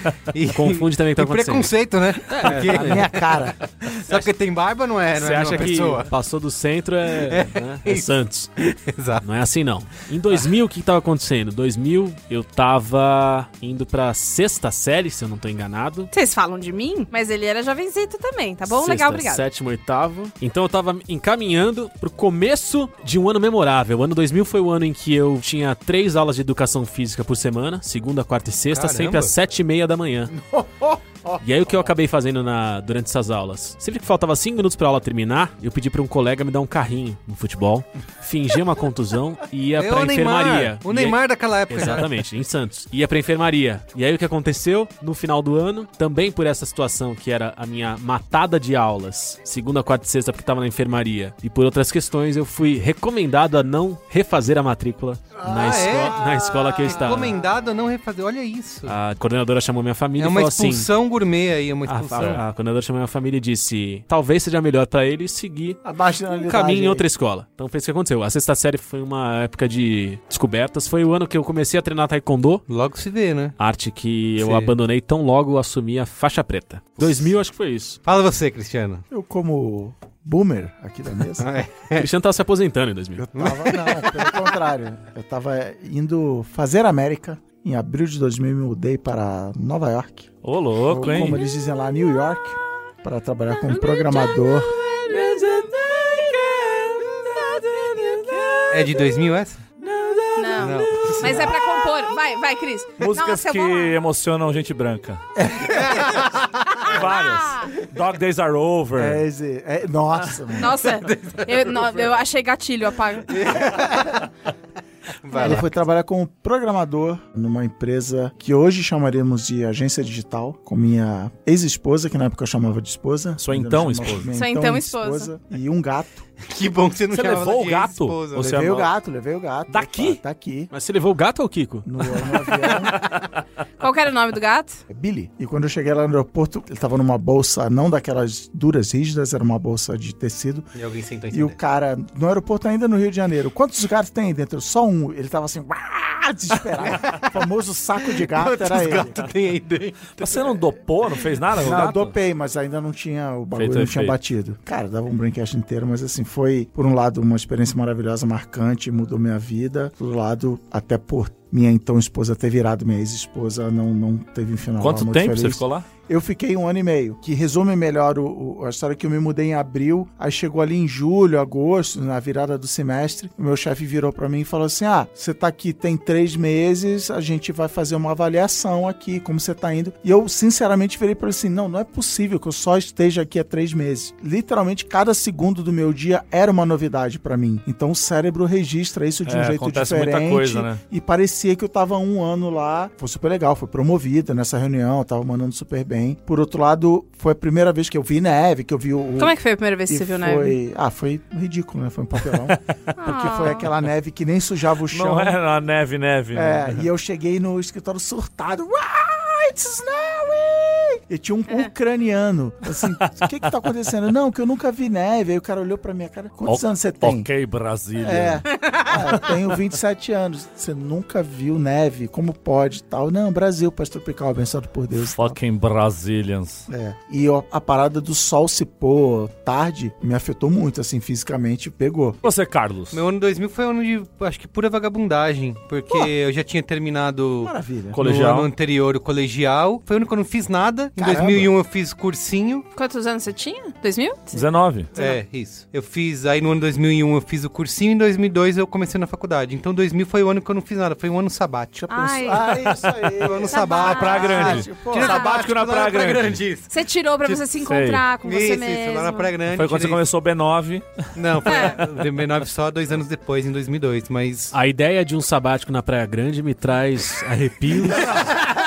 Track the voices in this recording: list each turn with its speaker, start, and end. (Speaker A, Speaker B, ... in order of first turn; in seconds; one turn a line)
Speaker A: 0.3-3.3
Speaker B: 0.5-3.1
Speaker C: 2.6-3.6
Speaker A: 3.8-6.1
Speaker B: 5.1-8.5
Speaker A: 7.2-9.3
Speaker B: 9.2-16.1
Speaker D: 16.1-19.4
Speaker B: 18.6-30.3
Speaker A: 28.7-29.3
Speaker C: 30.3-31.9
Speaker B: 31.4-57.4
Speaker A: 39.7-42.1
Speaker C: 55.4-57.4
Speaker A: 55.4-59.0
Speaker B: 58.9-60.9
Speaker A: 60.1-62.4
Speaker B: 61.9-65.8
Speaker C: 65.8-67.0
Speaker B: 66.3-72.6
Speaker A: 72.7-73.6
Speaker B: 73.6-78.0
Speaker A: 74.4-74.7
Speaker A: 78.0-79.0
Speaker C: 79.1-81.5
Speaker A: 81.4-82.1
Speaker B: 82.0-83.3
Speaker C: 83.2-90.3
Speaker A: 83.3-84.3
Speaker E: 90.4-91.4
Speaker C: 90.8-94.7
Speaker D: 93.8-94.3
Speaker E: 95.0-99.1
Speaker A: 98.7-99.6
Speaker E: 99.8-101.6
Speaker D: 100.3-103.9
Speaker A: 100.6-101.5
Speaker E: 103.0-105.2
Speaker C: 105.4-105.9
Speaker A: 105.7-106.3
Speaker E: 106.8-109.2
Speaker D: 106.8-107.7
Speaker C: 108.9-110.8
Speaker D: 110.5-113.4
Speaker A: 111.0-112.1
Speaker A: 113.3-114.3
Speaker C: 113.5-114.1
Speaker A: 115.2-115.7
Speaker D: 115.3-115.6
Speaker C: 115.4-126.2
Speaker E: 123.4-124.3
Speaker D: 124.3-125.3
Speaker A: 126.4-128.6
Speaker E: 127.1-128.9
Speaker C: 128.4-130.7
Speaker E: 129.7-130.2
Speaker B: 130.7-131.9
Speaker C: 131.8-132.9
Speaker D: 133.8-134.8
Speaker C: 134.9-140.7
Speaker A: 140.7-141.6
Speaker C: 141.3-149.2
Speaker A: 146.8-147.3
Speaker A: 148.2-150.6
Speaker E: 150.2-152.1
Speaker C: 151.6-199.4
Speaker E: 153.5-154.1
Speaker E: 164.8-165.8
Speaker E: 189.2-190.8
Speaker D: 199.2-200.6
Speaker C: 199.9-205.4
Speaker D: 203.0-203.7
Speaker E: 204.9-206.8
Speaker C: 206.3-217.3
Speaker E: 216.4-218.4
Speaker C: 217.9-225.4
Speaker E: 225.0-226.7
Speaker C: 226.7-232.2
Speaker E: 232.2-233.0
Speaker A: 232.9-242.7
Speaker C: 237.4-238.0
Speaker E: 237.9-238.5
Speaker C: 241.0-241.5
Speaker D: 242.7-245.2
Speaker E: 244.3-244.9
Speaker A: 244.9-252.3
Speaker C: 251.8-255.3
Speaker D: 251.9-252.7
Speaker E: 252.7-252.9
Speaker A: 253.2-257.4
Speaker D: 253.4-255.2
Speaker E: 253.8-256.4
Speaker D: 256.7-259.3
Speaker E: 257.6-258.0
Speaker A: 258.2-260.0
Speaker E: 259.5-261.9
Speaker A: 261.1-264.5
Speaker D: 261.4-261.8
Speaker B: 264.5-268.2
Speaker A: 268.1-268.5
Speaker E: 268.1-268.4